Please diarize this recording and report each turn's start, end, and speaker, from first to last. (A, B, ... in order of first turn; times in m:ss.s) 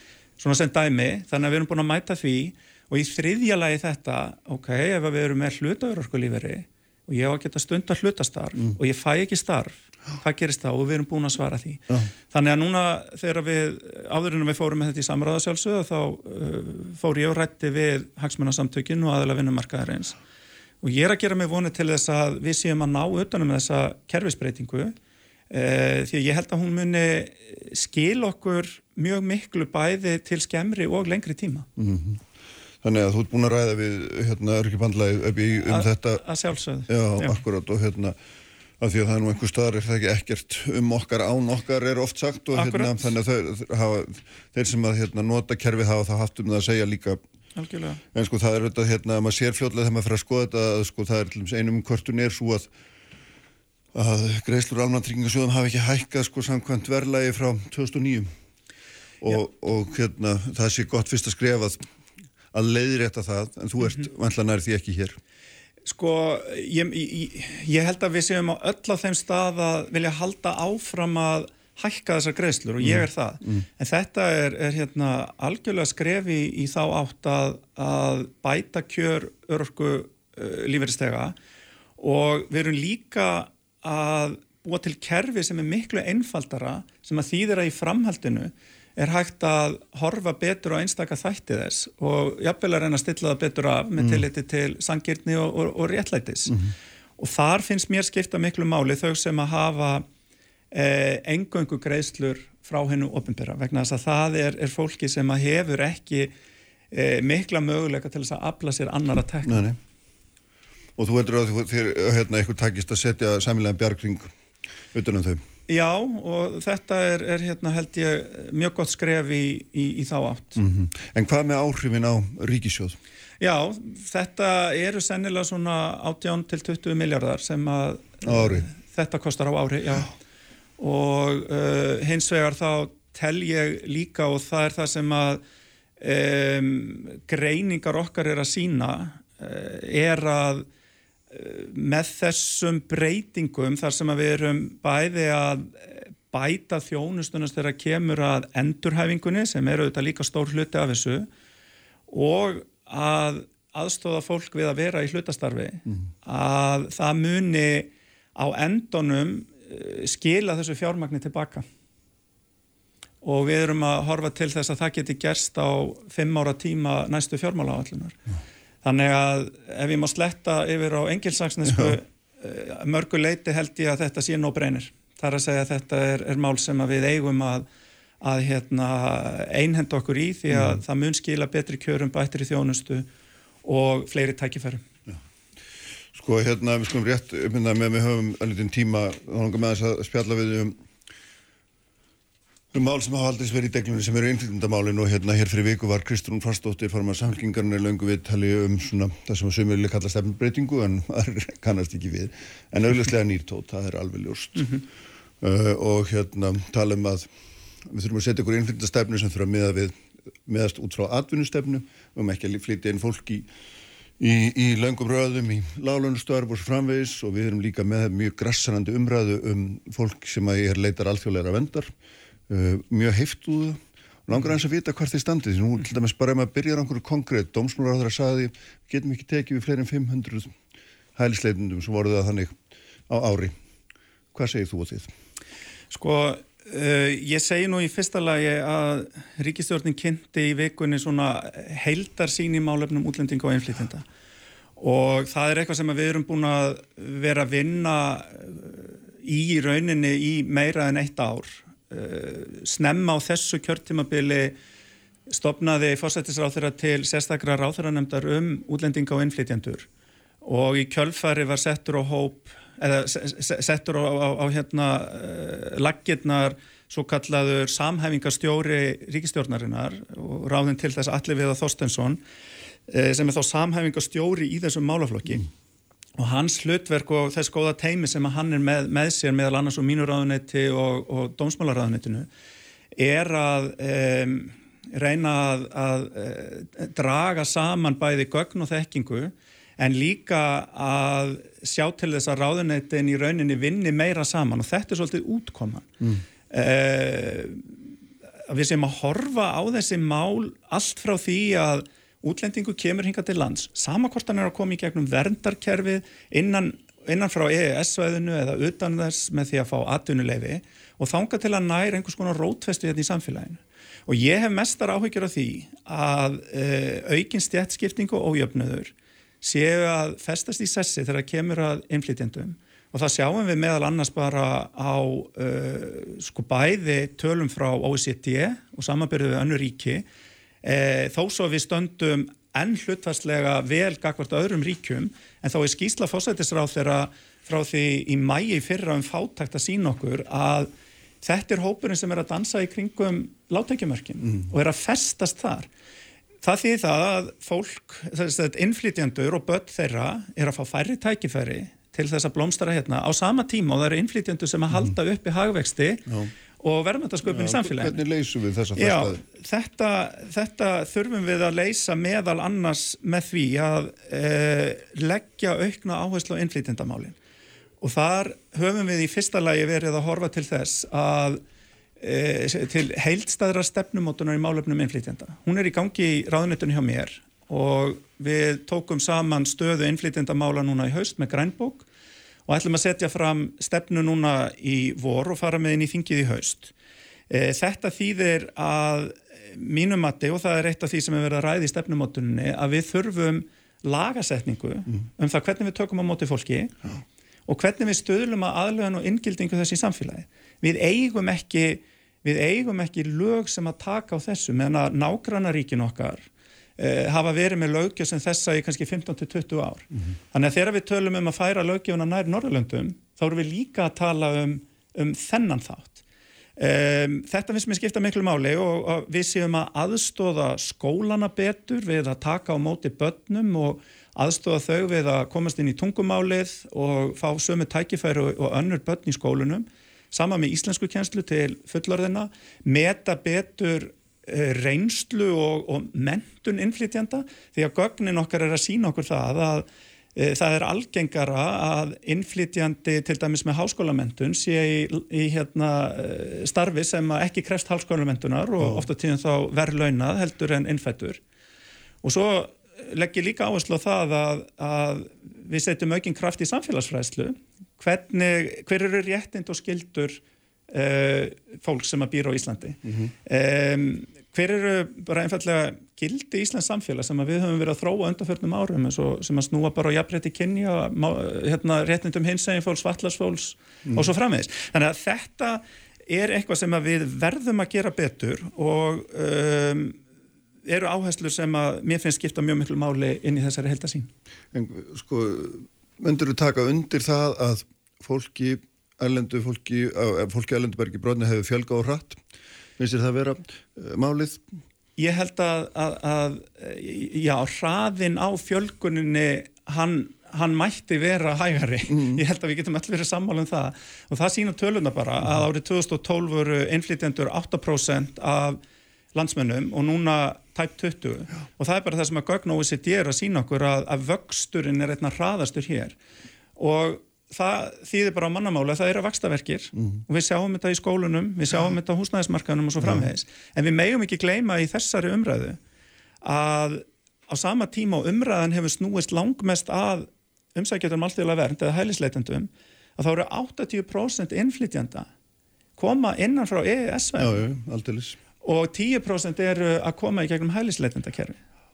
0:00.4-0:20.2 A
0:20.8-0:24.9 A
0:25.5-0:31.7 A
0:31.8-0:32.2 B
0:32.8-0:36.2 B
0:35.6-0:37.4 A
0:36.9-0:38.2 B
0:38.8-0:47.2 B
0:42.6-0:43.1 A
0:47.6-0:48.0 A
0:48.1-0:52.7 B
0:53.9-0:58.3 B
0:59.2-1:01.8 B
1:02.5-1:05.2 B
1:05.8-1:21.4 A
1:12.8-1:13.6 B
1:22.0-1:36.6 A
1:34.0-1:34.2 B
1:36.5-1:36.7 B
1:37.2-1:40.1 A
1:40.7-1:46.3 A
1:46.9-1:49.6 A
1:49.4-1:49.8 B
1:51.0-1:54.3 B
1:54.9-1:55.4 B
1:55.7-2:00.6 A
2:00.6-2:03.0 B
2:03.4-2:10.1 A
2:08.2-2:08.7 B
2:10.8-2:15.4 A
2:16.0-2:20.7 A
2:21.3-2:31.3 A
2:32.1-2:41.6 A
2:43.2-2:48.2 A
2:48.8-2:57.7 A
2:58.2-3:03.1 A
3:03.6-3:04.8 A
3:06.1-3:10.8 B
3:12.7-3:24.8 B
3:25.4-3:27.3 B
3:27.8-3:33.5 B
3:34.2-3:41.9 B
3:42.5-3:50.5 B
3:51.2-3:52.6 B
3:53.1-3:53.6 B
3:54.3-3:55.1 B
3:55.9-4:04.0 A
4:04.8-4:14.6 A
4:15.3-4:19.9 A
4:20.4-4:32.2 A
4:32.9-4:35.5 A
4:36.2-4:42.3 A
4:43.0-4:55.9 A
4:56.5-4:57.8 A
4:58.5-5:30.0 A
5:30.6-5:40.7 A
5:41.2-5:45.7 A
5:46.4-5:56.0 A
5:56.6-5:58.0 A
5:57.2-5:59.2 B
5:58.8-6:07.2 A
6:07.8-6:11.4 A
6:12.0-6:21.9 A
6:22.5-6:26.7 A
6:27.3-6:36.7 A
6:37.5-6:46.3 A
6:46.8-6:56.0 A
6:56.6-7:31.2 A
7:28.6-7:28.9 B
7:32.0-8:00.0 A
8:00.7-8:04.1 A
8:04.5-8:12.2 B
8:12.8-8:14.4 B
8:15.0-8:28.6 A
8:21.9-8:22.2 B
8:29.1-8:36.0 A
8:36.6-8:45.6 A
8:42.8-8:43.1 B
8:46.2-8:55.1 A
8:55.8-8:57.4 A
8:57.2-8:58.2 B
8:58.4-9:01.4 A